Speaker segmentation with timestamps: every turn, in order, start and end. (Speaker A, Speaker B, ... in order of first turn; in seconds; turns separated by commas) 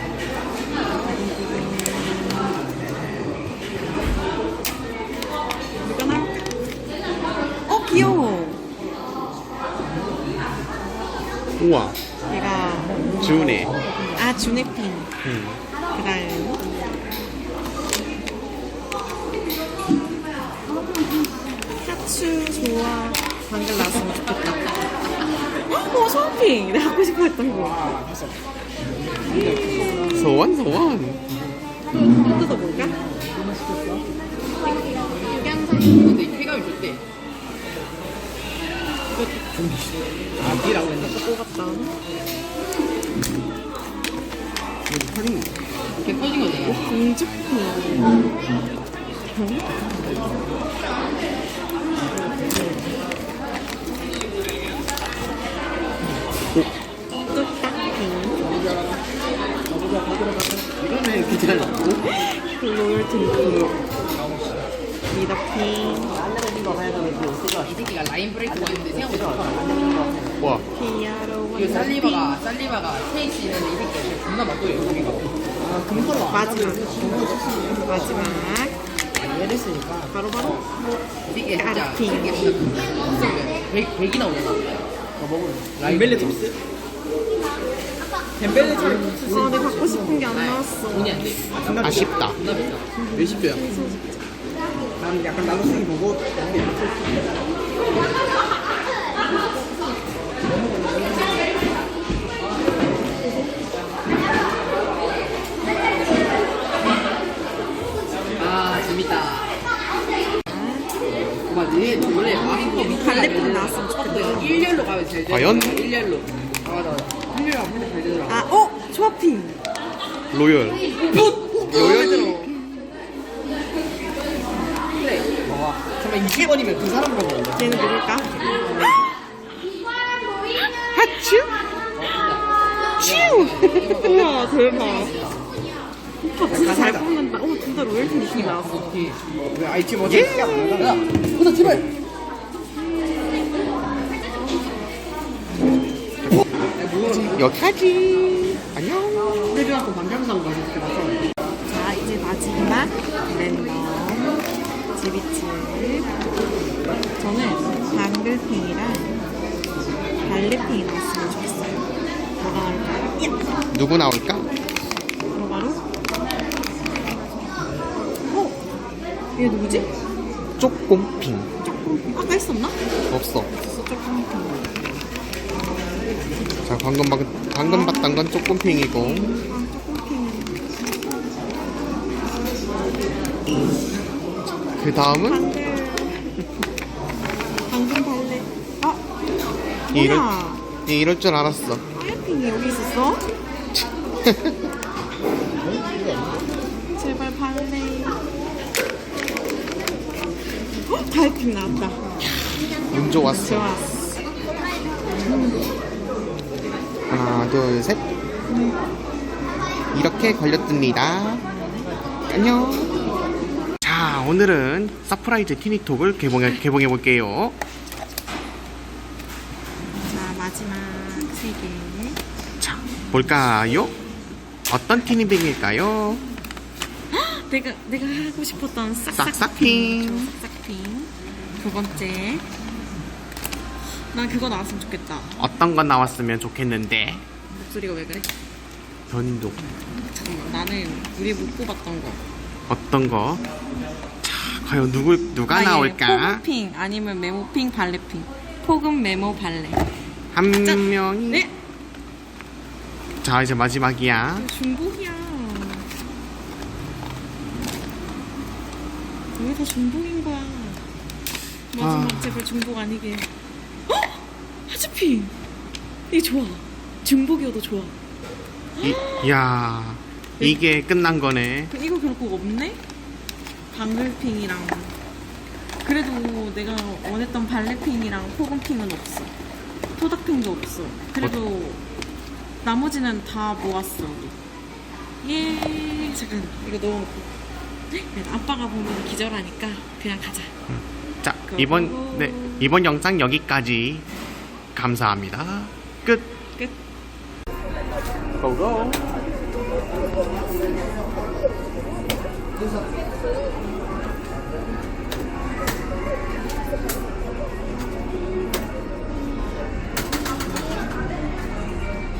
Speaker A: 0.9-2.5, Speaker A: 5.8-6.5, Speaker A: 7.7-8.6, Speaker B: 11.6-12.0, Speaker A: 12.3-13.2, Speaker B: 13.2-13.7, Speaker A: 14.1-15.1, Speaker B: 15.2-15.6, Speaker A: 15.9-16.7, Speaker A: 21.8-24.8, Speaker A: 25.6-27.9, Speaker C: 27.7-28.3, Speaker C: 29.3-30.1, Speaker B: 30.1-31.3, Speaker A: 31.9-33.0, Speaker C: 33.7-34.0, Speaker A: 35.3-35.8, Speaker D: 35.8-37.0, Speaker A: 39.1-39.5, Speaker C: 40.4-41.0, Speaker A: 40.7-42.0, Speaker D: 46.0-46.8, Speaker A: 46.7-48.3, Speaker A: 49.3-49.7, Speaker A: 57.2-58.5, Speaker C: 60.3-62.0, Speaker A: 62.0-63.8, Speaker A: 65.1-66.2, Speaker C: 66.2-67.6, Speaker D: 67.6-70.1, Speaker C: 68.5-70.3, Speaker A: 70.7-72.4, Speaker D: 71.5-75.3, Speaker C: 75.7-78.2, Speaker A: 76.3-77.2, Speaker A: 77.8-78.8, Speaker C: 79.2-80.1, Speaker A: 80.1-80.7, Speaker D: 81.2-84.8, Speaker A: 81.5-82.4, Speaker C: 85.2-86.5, Speaker D: 85.8-86.3, Speaker C: 88.4-90.3, Speaker A: 88.7-91.2, Speaker D: 90.3-92.9, Speaker C: 91.7-92.0, Speaker B: 91.8-92.4, Speaker A: 93.0-94.2, Speaker C: 93.1-93.7, Speaker C: 95.0-97.1, Speaker D: 108.3-109.5, Speaker A: 110.5-110.9, Speaker D: 111.4-118.4, Speaker A: 112.1-114.8, Speaker B: 115.3-115.8, Speaker A: 118.3-119.6, Speaker B: 120.3-120.8, Speaker A: 121.4-122.5, Speaker B: 121.8-122.3, Speaker D: 124.9-125.3, Speaker C: 125.5-127.9, Speaker A: 127.5-129.0, Speaker A: 130.9-131.6, Speaker D: 132.0-132.4, Speaker D: 133.0-135.4, Speaker A: 133.0-135.2, Speaker A: 136.2-138.9, Speaker C: 136.5-137.0, Speaker D: 137.9-139.2, Speaker C: 139.5-141.8, Speaker B: 140.0-140.6, Speaker D: 140.8-141.8, Speaker D: 146.8-147.3, Speaker B: 147.2-149.6, Speaker C: 149.6-151.2, Speaker A: 151.6-156.3, Speaker A: 157.2-159.2, Speaker A: 160.2-161.9, Speaker A: 162.4-163.5, Speaker B: 163.7-164.5, Speaker A: 165.3-165.8, Speaker A: 168.3-168.6, Speaker A: 169.3-169.9, Speaker B: 170.6-171.5, Speaker A: 171.6-172.8, Speaker B: 173.1-173.5, Speaker A: 173.6-174.9, Speaker B: 176.6-179.3, Speaker A: 177.6-180.6, Speaker B: 184.8-185.4, Speaker A: 185.1-186.4, Speaker A: 187.7-189.0, Speaker A: 189.9-190.6, Speaker B: 189.9-191.8, Speaker A: 191.9-193.3, Speaker B: 193.7-194.7, Speaker A: 196.9-198.3, Speaker A: 200.9-202.4, Speaker B: 202.9-203.8, Speaker A: 203.2-204.2, Speaker A: 205.1-205.7, Speaker B: 207.1-208.0, Speaker A: 208.5-208.8, Speaker B: 209.9-211.5, Speaker A: 211.5-211.8, Speaker B: 212.2-213.1, Speaker B: 213.8-217.6, Speaker A: 220.1-222.2, Speaker B: 222.6-223.9, Speaker B: 224.7-226.2, Speaker A: 227.1-232.5, Speaker B: 229.1-230.3, Speaker A: 233.9-235.4, Speaker B: 235.4-237.2, Speaker A: 237.5-238.3, Speaker B: 239.1-239.6, Speaker A: 240.1-242.2, Speaker B: 242.7-243.4, Speaker B: 244.2-246.4, Speaker A: 245.5-249.8, Speaker B: 250.3-251.4, Speaker A: 250.6-251.5, Speaker B: 253.2-254.5, Speaker A: 254.4-255.9, Speaker A: 259.4-260.8, Speaker A: 261.7-263.3, Speaker B: 261.8-262.4, Speaker A: 263.9-265.3, Speaker A: 266.1-267.9, Speaker A: 268.8-269.3, Speaker B: 268.8-271.7, Speaker A: 271.7-272.8, Speaker A: 273.7-275.0, Speaker A: 275.8-279.3, Speaker A: 279.9-281.8, Speaker A: 282.6-284.4, Speaker A: 285.2-287.3, Speaker A: 287.9-290.6, Speaker B: 291.2-294.1, Speaker A: 291.5-292.7, Speaker B: 294.7-296.3, Speaker B: 298.4-299.1